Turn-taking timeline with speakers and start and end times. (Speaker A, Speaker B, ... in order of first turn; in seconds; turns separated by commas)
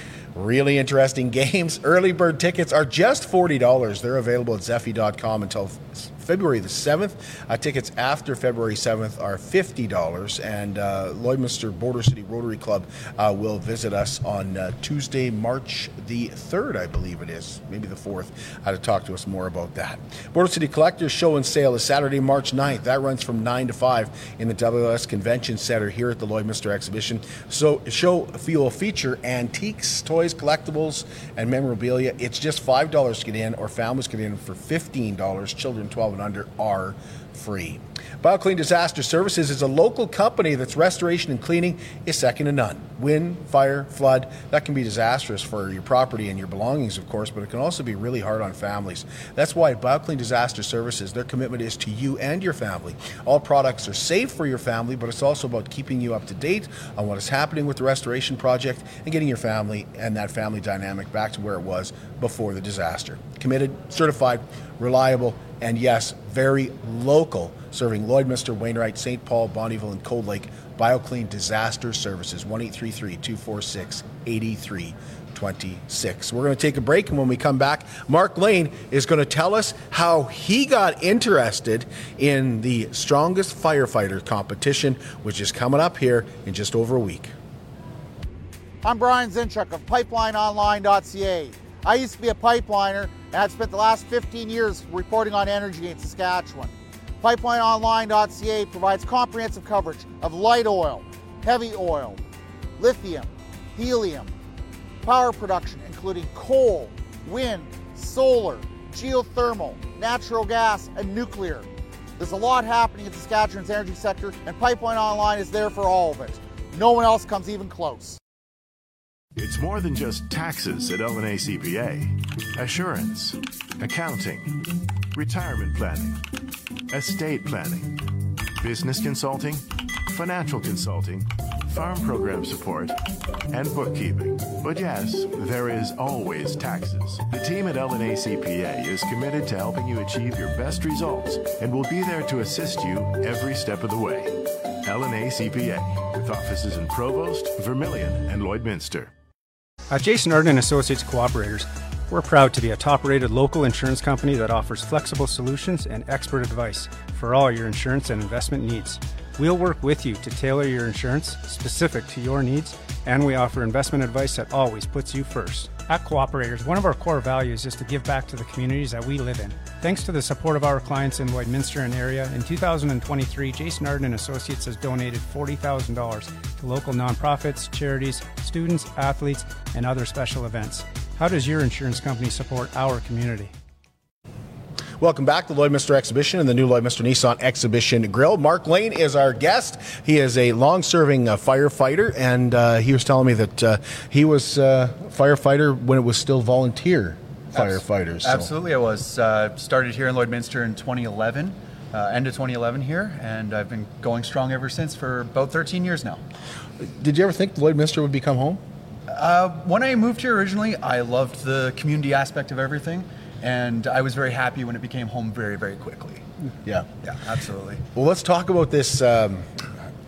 Speaker A: 0.3-87.3, Speaker B: 88.8-102.2, Speaker B: 102.8-104.3, Speaker B: 105.0-111.7, Speaker B: 112.2-118.2, Speaker C: 119.4-124.6, Speaker C: 125.1-126.2, Speaker C: 126.9-128.0, Speaker C: 128.6-133.0, Speaker C: 133.5-149.1, Speaker D: 149.9-183.5, Speaker A: 185.0-198.5, Speaker E: 197.5-206.2, Speaker A: 206.8-208.6, Speaker E: 209.1-216.2, Speaker E: 217.0-217.8, Speaker A: 217.9-219.7